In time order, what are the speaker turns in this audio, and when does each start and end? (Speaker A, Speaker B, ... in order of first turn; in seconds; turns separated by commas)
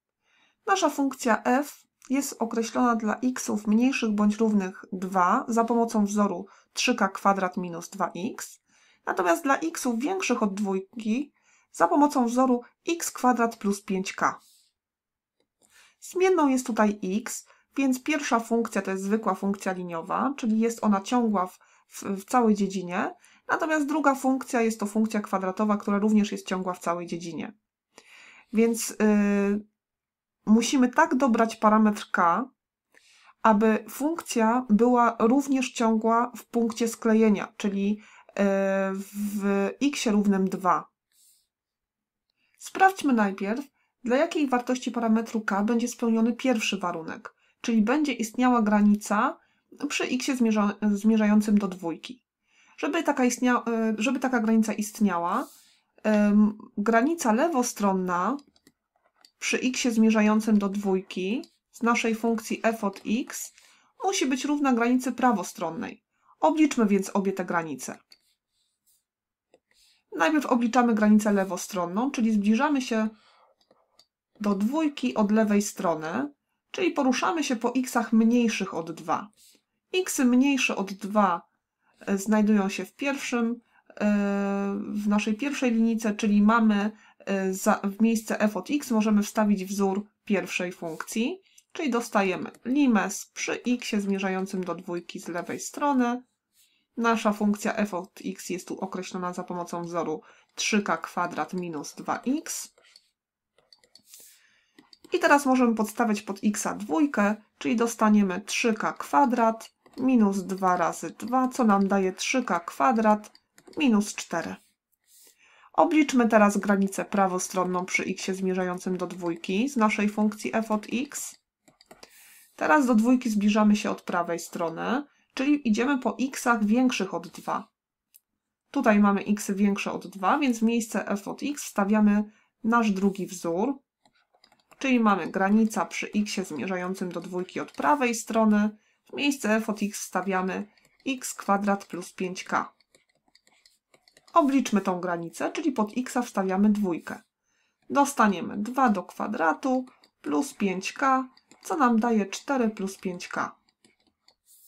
Speaker A: 0.7-14.4, Speaker A: 16.0-27.5, Speaker A: 28.5-29.6, Speaker A: 30.4-32.5, Speaker A: 33.4-40.9, Speaker A: 42.6-52.2, Speaker A: 52.8-55.5, Speaker A: 56.0-58.4, Speaker A: 59.4-68.0, Speaker A: 70.1-73.1, Speaker A: 74.4-79.3, Speaker A: 79.9-81.5, Speaker A: 82.0-96.2, Speaker A: 97.0-102.7, Speaker A: 105.1-114.6, Speaker A: 115.7-121.4, Speaker A: 122.5-127.7, Speaker A: 128.7-133.8, Speaker A: 134.8-142.7, Speaker A: 144.3-147.2, Speaker A: 147.9-153.5